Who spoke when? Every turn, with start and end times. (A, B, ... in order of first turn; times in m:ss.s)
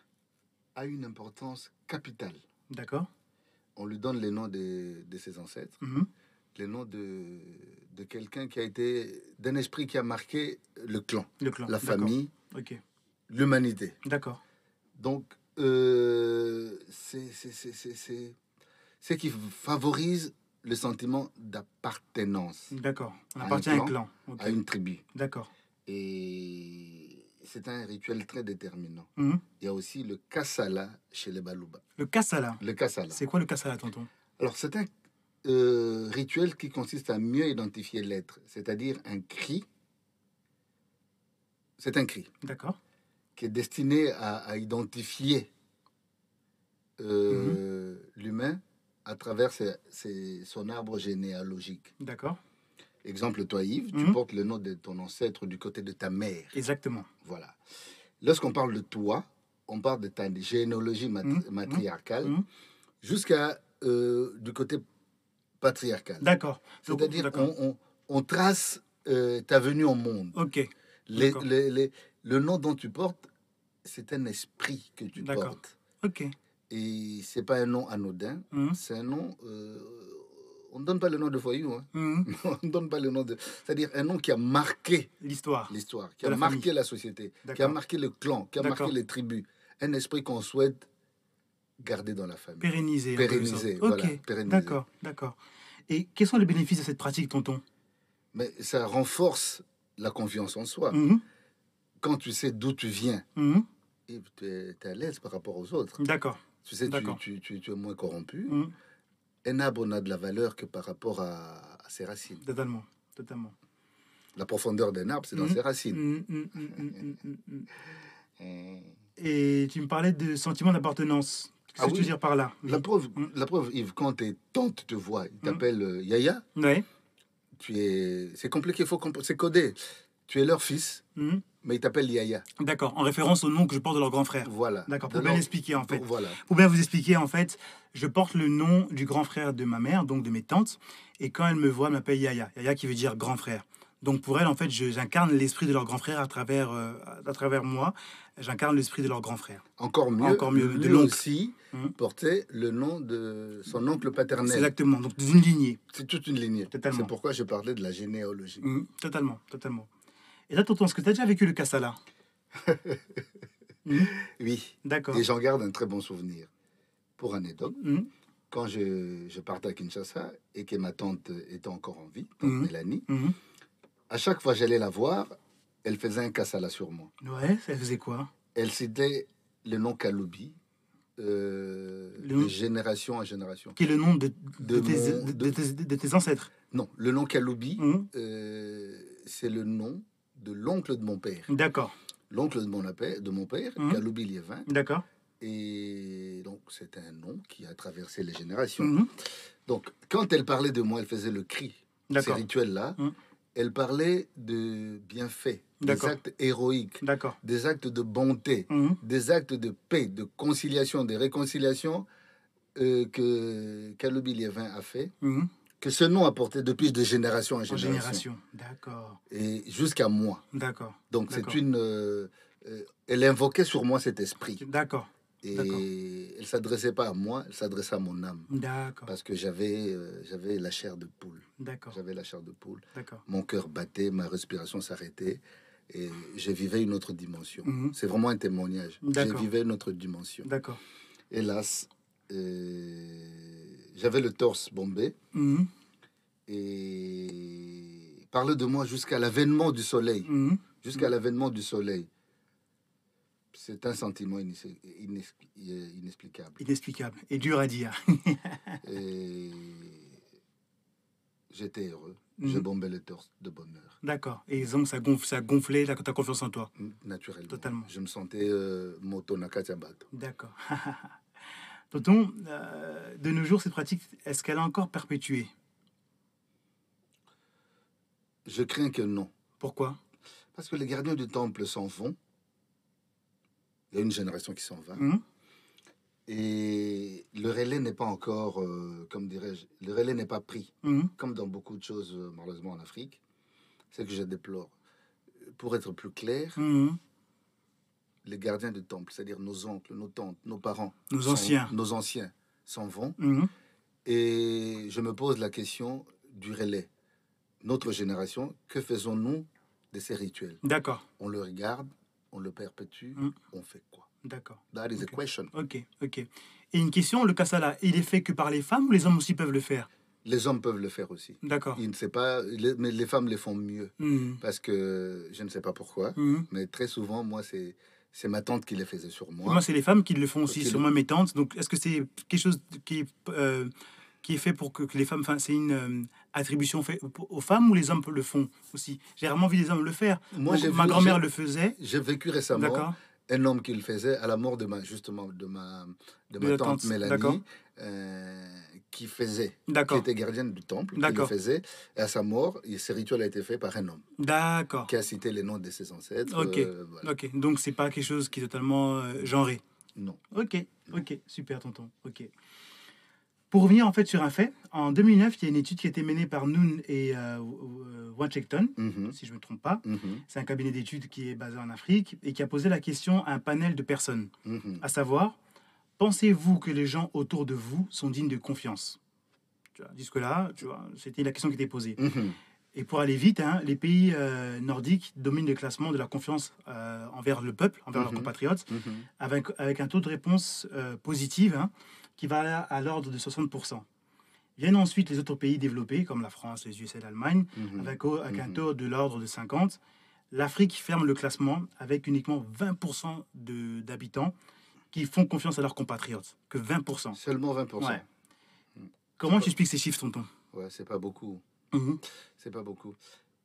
0:00.7-0:02.4 A
0:02.7-0:03.1 B
0:03.8-0:05.8 A
0:05.8-0:06.1 B
0:06.5-0:12.3 A
0:11.4-0:12.8 B
0:13.3-0:14.0 A
0:14.0-0:14.4 B
0:15.0-0:18.4 A
0:19.0-0:22.7 A
0:22.7-0:24.6 B
0:23.4-0:25.0 A
0:25.1-0:25.5 B
0:25.8-0:31.8 A
0:29.2-0:29.4 B
0:32.0-0:34.1 B
0:32.6-0:33.2 A
0:34.4-0:34.9 A
0:35.4-0:39.6 A
0:41.8-0:42.3 A
0:42.4-0:42.8 B
0:43.4-0:45.5 A
0:47.0-0:51.9 A
0:47.3-0:47.6 B
0:52.0-0:52.4 B
0:53.0-0:56.5 A
0:56.5-0:57.1 B
0:57.2-0:57.6 A
0:58.2-1:02.4 A
1:01.2-1:02.4 B
1:03.0-1:04.8 A
1:05.6-1:06.3 A
1:06.2-1:07.5 B
1:06.8-1:10.4 A
1:10.3-1:11.4 B
1:11.1-1:13.3 A
1:13.8-1:15.8 A
1:15.2-1:16.3 B
1:16.7-1:25.1 A
1:18.5-1:18.8 B
1:21.9-1:22.3 B
1:25.2-1:26.7 B
1:25.7-1:30.9 A
1:27.4-1:27.8 B
1:28.6-1:28.9 B
1:31.8-1:34.8 A
1:32.6-1:35.4 B
1:35.9-1:37.6 B
1:38.3-1:41.0 A
1:40.9-1:41.2 B
1:42.0-1:43.3 A
1:43.4-1:43.6 B
1:44.1-1:46.0 A
1:46.0-1:47.2 B
1:46.6-1:48.6 A
1:48.5-1:48.7 B
1:49.4-1:52.4 A
1:52.4-1:53.5 B
1:54.4-1:56.0 A
1:55.3-1:57.7 B
1:58.4-1:58.9 A
1:59.2-2:03.2 B
2:01.8-2:06.4 A
2:06.6-2:06.8 B
2:07.6-2:11.0 A
2:11.2-2:11.4 B
2:11.6-2:12.4 A
2:12.6-2:29.6 B
2:14.4-2:16.4 A
2:29.8-2:34.7 A
2:30.2-2:31.9 B
2:34.4-2:35.8 B
2:35.9-2:38.6 A
2:36.7-2:37.1 B
2:38.6-2:39.9 B
2:40.5-2:42.0 B
2:42.5-2:43.2 A
2:43.8-2:44.1 B
2:44.1-2:46.5 A
2:44.8-2:45.2 B
2:47.2-2:47.8 A
2:47.7-2:48.1 B
2:48.5-2:53.1 A
2:52.4-2:53.4 B
2:54.1-2:57.1 A
2:57.2-2:58.3 B
2:58.5-3:00.6 A
3:01.2-3:03.8 A
3:02.2-3:02.5 B
3:03.8-3:06.5 B
3:04.6-3:05.6 A
3:06.7-3:11.5 A
3:07.8-3:08.1 B
3:11.5-3:11.9 B
3:12.3-3:14.7 A
3:14.7-3:15.0 B
3:15.4-3:18.9 A
3:18.8-3:19.1 B
3:19.6-3:23.0 A
3:22.1-3:22.5 B
3:23.5-3:32.0 A
3:25.8-3:26.2 B
3:27.0-3:27.4 B
3:28.7-3:29.0 B
3:32.7-3:35.1 A
3:35.2-3:35.5 B
3:35.8-3:38.2 A
3:37.7-3:39.2 B
3:39.3-3:40.4 A
3:40.5-3:41.6 B
3:41.1-3:44.6 A
3:44.6-3:45.8 B
3:45.4-3:48.5 A
3:48.5-3:49.1 B
3:49.0-4:00.5 A
3:51.6-3:52.0 B
3:52.9-3:53.2 B
3:57.6-3:57.9 B
3:59.0-3:59.5 B
4:00.4-4:00.8 B
4:01.3-4:05.2 A
4:05.3-4:05.7 B
4:06.5-4:10.3 A
4:10.2-4:10.7 B
4:10.8-4:12.1 A
4:13.5-4:16.6 A
4:16.6-4:18.8 B
4:18.8-4:20.2 A
4:21.5-4:24.0 A
4:22.4-4:22.6 B
4:24.0-4:26.7 B
4:26.8-4:30.1 A
4:27.5-4:27.9 B
4:30.1-4:31.2 B
4:31.9-4:35.5 B
4:38.4-4:39.3 A
4:39.6-4:40.0 B
4:40.5-4:42.2 A
4:43.9-4:45.1 A
4:45.0-4:45.2 B
4:46.3-4:53.2 A
4:50.8-4:51.1 B
4:53.9-4:54.7 A
4:55.4-4:56.6 A
4:56.6-4:57.0 B
4:58.2-5:03.2 A
5:01.1-5:01.7 B
5:03.2-5:03.5 B
5:04.0-5:06.9 A
5:07.6-5:10.6 A
5:10.6-5:11.0 B
5:11.2-5:14.1 A
5:14.2-5:19.9 B
5:14.7-5:15.5 A
5:20.2-5:29.6 A
5:21.4-5:21.8 B
5:24.0-5:24.4 B
5:26.2-5:26.5 B
5:29.4-5:41.8 B
5:30.5-5:30.8 A
5:40.3-5:41.2 A
5:41.8-5:54.0 A
5:42.5-5:42.9 B
5:46.4-5:47.4 B
5:49.7-5:50.0 B
5:51.0-5:51.3 B
5:54.2-5:54.9 B
5:54.9-5:57.1 A
5:56.2-5:59.6 B
6:00.3-6:02.3 B
6:03.5-6:15.4 B
6:08.8-6:09.2 A
6:09.8-6:10.2 A
6:14.4-6:14.8 A
6:16.0-6:19.0 B
6:19.7-6:22.0 B
6:22.0-6:22.4 A
6:22.7-6:33.8 B
6:27.9-6:29.1 A
6:34.6-6:39.8 B
6:37.5-6:38.6 A
6:40.3-6:44.3 B
6:44.9-6:47.2 B
6:47.1-6:48.0 A
6:47.8-6:48.0 B
6:48.8-6:49.5 A
6:49.2-6:50.3 B
6:50.5-6:51.4 A
6:51.7-6:52.0 B
6:52.4-6:53.0 A